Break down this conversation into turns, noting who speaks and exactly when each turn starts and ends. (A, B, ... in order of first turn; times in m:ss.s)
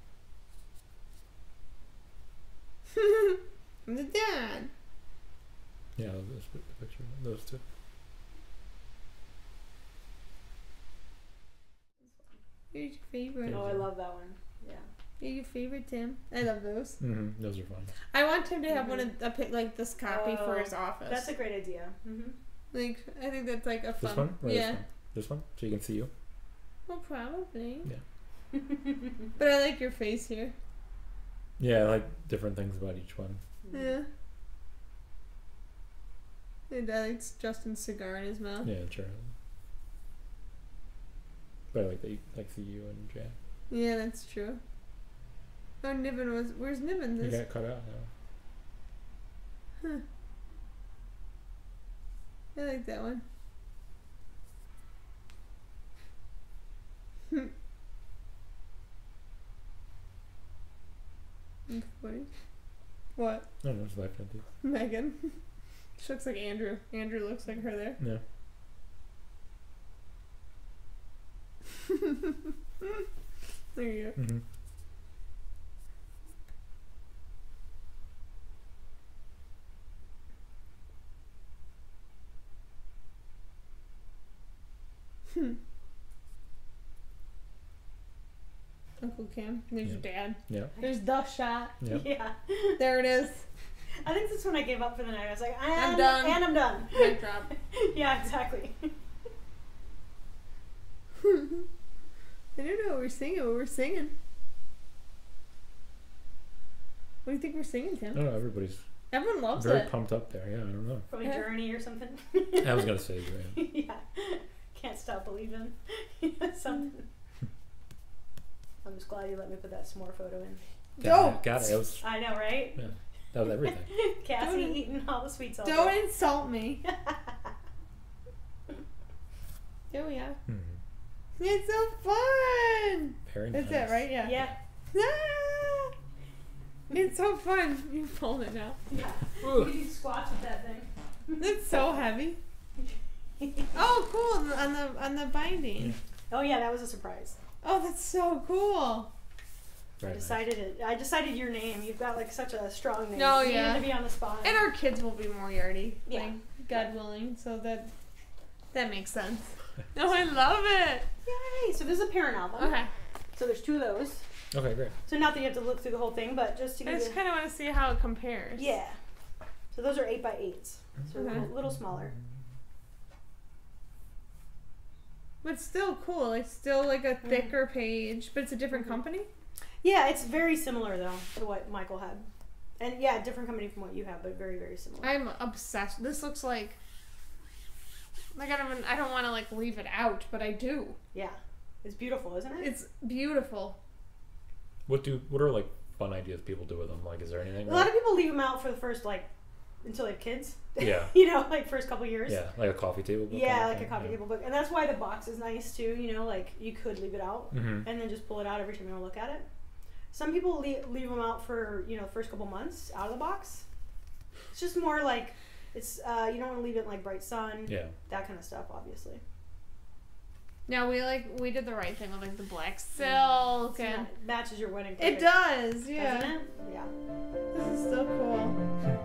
0:03.0-0:04.7 A
0:06.0-0:07.6 B
0:12.7-0:13.6 A
0:13.4-0:13.8 B
0:13.5-0:14.8 C
0:15.2-0:17.0 A
0:17.0-0:17.9 B
0:18.1-0:21.3 A
0:18.7-0:19.0 C
0:20.0-0:22.4 C
0:22.7-0:24.8 A
0:24.0-0:26.1 B
0:26.9-0:27.9 A
0:29.4-0:30.5 A
0:31.6-0:33.4 B
0:33.7-0:34.1 A
0:36.7-0:38.7 A
0:38.6-0:39.3 B
0:41.7-0:43.4 B
0:43.7-0:44.6 A
0:45.8-0:47.4 A
0:47.2-0:48.1 B
0:52.5-0:53.2 A
1:01.7-1:02.3 A
1:03.2-1:03.5 A
1:03.6-1:04.4 B
1:04.6-1:05.3 A
1:06.0-1:08.0 A
1:13.7-1:14.2 A
1:14.2-1:14.4 B
1:29.0-1:31.8 A
1:31.8-1:32.8 C
1:32.8-1:33.4 A
1:34.0-1:38.9 C
1:35.7-1:37.5 A
1:41.2-1:41.6 A
1:42.6-1:44.1 A
1:47.2-1:48.2 A
1:48.1-1:48.8 B
1:49.1-1:49.9 A
1:49.5-1:51.1 B
1:51.1-1:57.0 C
1:52.6-1:53.6 B
1:58.8-2:00.6 C
2:01.0-2:01.8 A
2:01.0-2:02.0 B
2:02.0-2:02.9 C
2:02.8-2:03.9 B
2:03.8-2:06.0 C
2:04.4-2:04.8 A
2:05.6-2:06.8 A
2:06.8-2:07.5 C
2:09.9-2:10.4 A
2:10.5-2:10.8 B
2:11.4-2:14.4 A
2:13.3-2:14.5 B
2:14.2-2:14.5 C
2:14.9-2:15.9 A
2:16.9-2:18.8 A
2:18.9-2:21.4 C
2:19.4-2:19.7 B
2:21.4-2:22.4 A
2:23.4-2:23.7 C
2:23.7-2:26.0 A
2:26.3-2:27.4 C
2:27.6-2:29.1 A
2:30.0-2:30.4 B
2:30.0-2:34.6 C
2:33.1-2:37.9 A
2:36.1-2:36.9 C
2:38.7-2:41.1 A
2:41.2-2:42.8 C
2:42.6-2:42.9 A
2:43.3-2:44.2 C
2:44.5-2:44.9 B
2:45.0-2:47.2 C
2:46.8-2:48.8 A
2:48.5-2:49.0 C
2:49.7-2:52.1 C
2:51.1-2:51.5 A
2:55.4-2:59.3 A
2:57.2-2:57.5 C
2:59.8-3:02.2 C
3:02.8-3:05.1 C
3:05.0-3:06.8 A
3:08.3-3:11.0 A
3:11.1-3:12.7 C
3:12.6-3:13.8 A
3:14.9-3:17.9 B
3:17.6-3:19.3 C
3:19.8-3:22.4 C
3:20.8-3:21.1 B
3:22.3-3:24.1 B
3:23.3-3:29.4 C
3:27.5-3:27.9 B
3:30.1-3:33.6 C
3:34.5-3:39.2 C
3:37.7-3:37.9 B
3:40.7-3:44.1 A
3:43.7-3:46.9 C
3:45.0-3:46.3 A
3:47.5-3:48.6 A